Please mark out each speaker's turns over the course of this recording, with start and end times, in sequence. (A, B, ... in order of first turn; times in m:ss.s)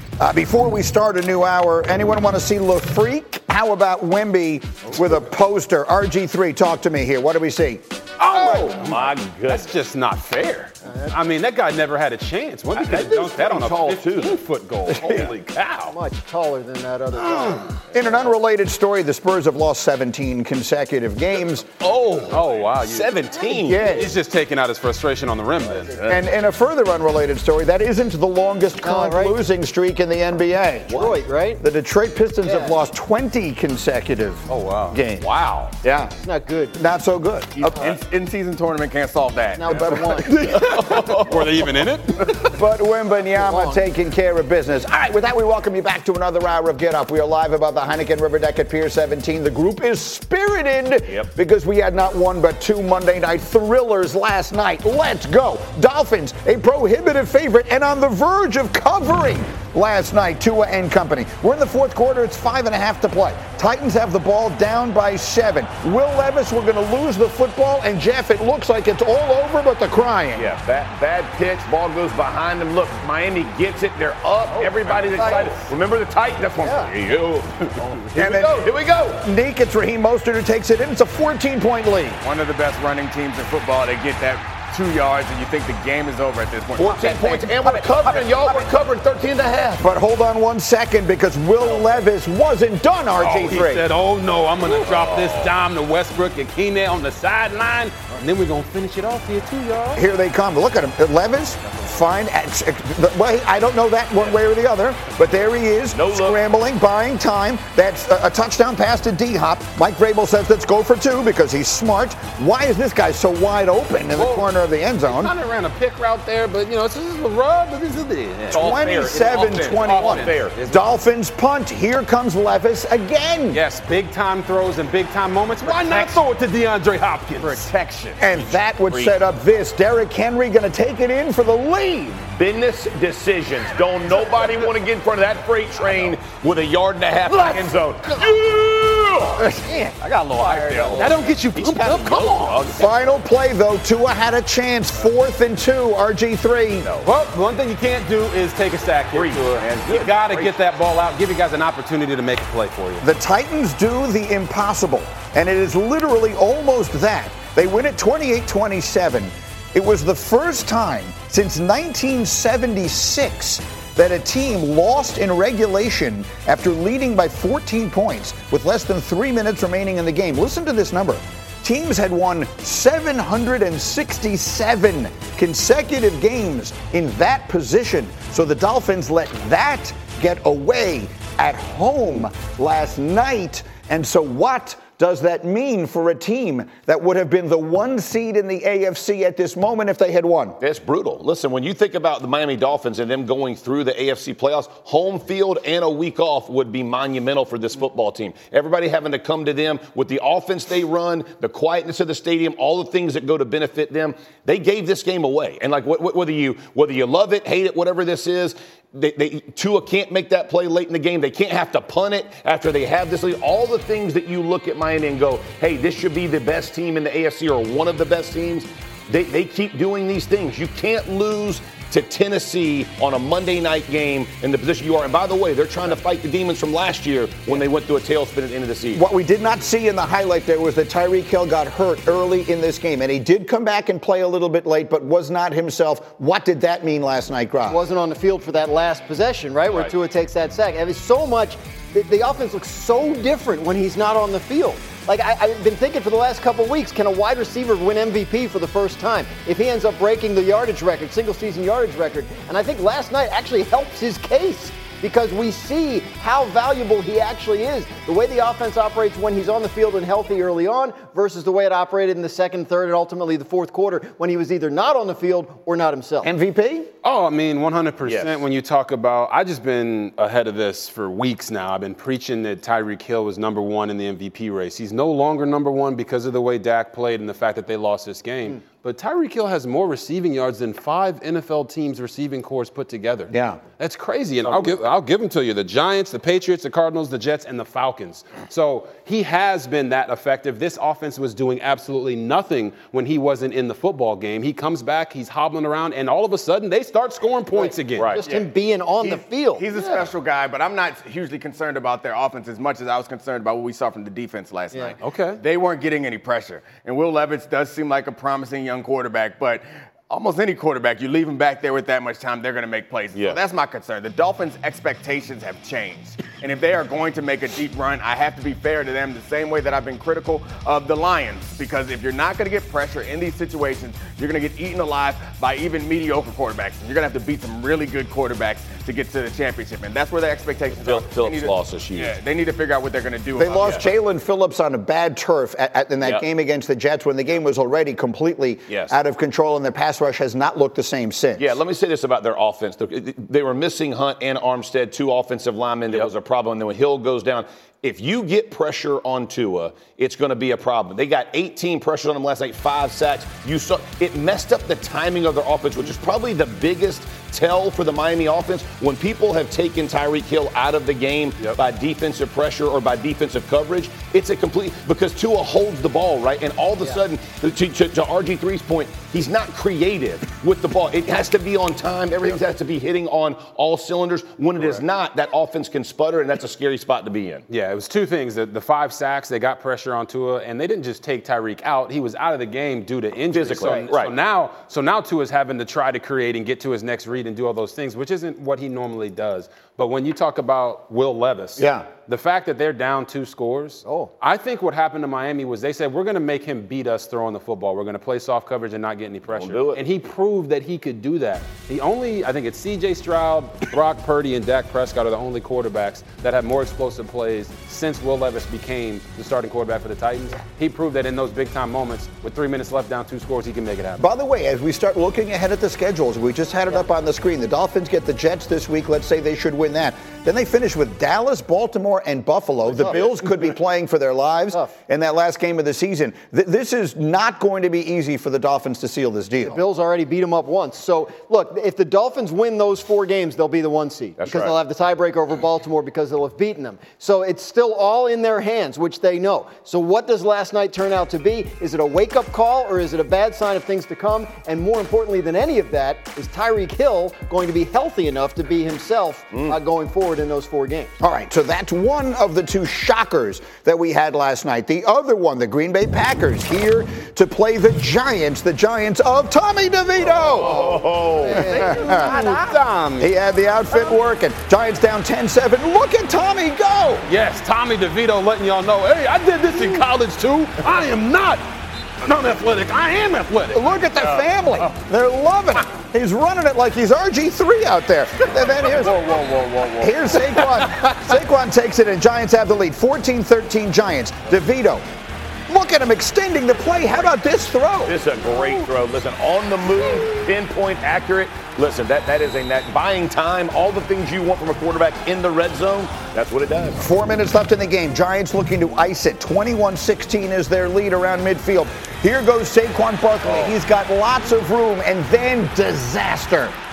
0:00.2-0:08.8 A
0:08.2-0:15.3 B
0:08.6-0:09.7 C
0:10.8-0:11.2 D
0:12.7-0:14.4 C
0:14.9-0:15.9 C
0:15.9-0:17.7 D
0:17.3-0:17.7 B
0:17.9-0:21.6 A
0:21.8-0:23.8 C
0:22.3-0:23.2 B
0:23.6-0:24.1 A
0:23.8-0:26.0 B
0:25.7-0:26.0 D
0:26.1-0:35.3 A
0:28.8-0:29.4 D
0:30.9-0:31.6 D
0:32.4-0:32.8 D
0:34.5-0:35.7 B
0:35.8-0:36.1 A
0:36.2-0:36.8 D
0:36.7-0:37.8 A
0:37.6-0:38.0 D
0:37.8-0:40.1 E
0:39.6-0:40.4 D
0:40.4-0:41.7 C
0:40.4-0:42.5 B
0:42.4-1:10.5 A
0:43.4-0:43.8 D
1:10.3-1:19.2 C
1:14.6-1:15.6 E
1:15.2-1:15.5 D
1:16.6-1:16.9 D
1:18.1-1:22.2 A
1:22.2-1:27.6 E
1:26.8-1:29.8 C
1:27.7-1:28.4 A
1:29.8-1:33.8 A
1:33.2-1:40.0 B
1:34.7-1:35.5 C
1:39.9-1:55.3 A
1:45.9-1:46.4 C
1:54.2-1:54.5 B
1:55.0-2:00.9 B
1:58.5-2:03.6 A
1:58.5-2:00.5 C
2:03.5-2:07.7 B
2:05.6-2:06.2 E
2:07.4-2:08.2 E
2:08.2-2:12.3 A
2:08.9-2:09.1 B
2:12.4-2:19.5 C
2:19.6-2:21.0 D
2:20.0-2:21.2 E
2:20.5-2:23.1 C
2:21.0-2:22.7 B
2:22.8-2:26.9 A
2:26.8-2:27.1 C
2:27.0-2:33.0 B
2:29.1-2:30.5 C
2:33.0-3:10.6 A
3:10.6-3:49.0 C
3:48.9-3:57.8 A
3:57.7-4:26.3 D
4:26.2-4:26.9 A
4:27.0-4:58.1 B
4:28.0-4:28.4 C
4:43.3-4:43.6 A
4:44.4-4:44.7 C
4:57.5-5:00.1 D
4:58.0-4:58.2 C
4:59.0-5:33.9 E
5:05.0-5:05.4 B
5:13.1-5:13.4 C
5:30.8-5:32.1 C
5:33.4-5:41.5 A
5:33.6-5:33.8 C
5:36.0-5:36.2 C
5:38.7-5:38.9 C
5:41.4-6:17.4 C
6:14.6-6:14.8 B
6:17.5-6:54.1 B
6:23.3-6:24.1 C
6:31.6-6:31.9 A
6:33.8-6:34.1 D
6:39.3-6:39.8 C
6:54.0-7:09.6 A
7:02.8-7:03.2 C
7:09.4-7:30.9 D
7:14.2-7:14.6 C
7:31.0-7:40.6 A
7:40.4-7:42.3 D
7:40.4-7:41.6 C
7:41.5-7:42.4 A
7:41.7-7:42.1 E
7:41.9-7:43.1 B
7:43.0-7:47.1 A
7:47.0-7:51.4 B
7:52.0-7:53.6 B
7:53.5-7:59.0 A
7:58.6-7:59.9 E
7:59.8-8:04.8 A
8:00.5-8:01.0 B
8:05.5-8:08.0 A
8:07.8-8:16.8 C
8:16.8-8:26.6 A
8:23.2-8:23.5 C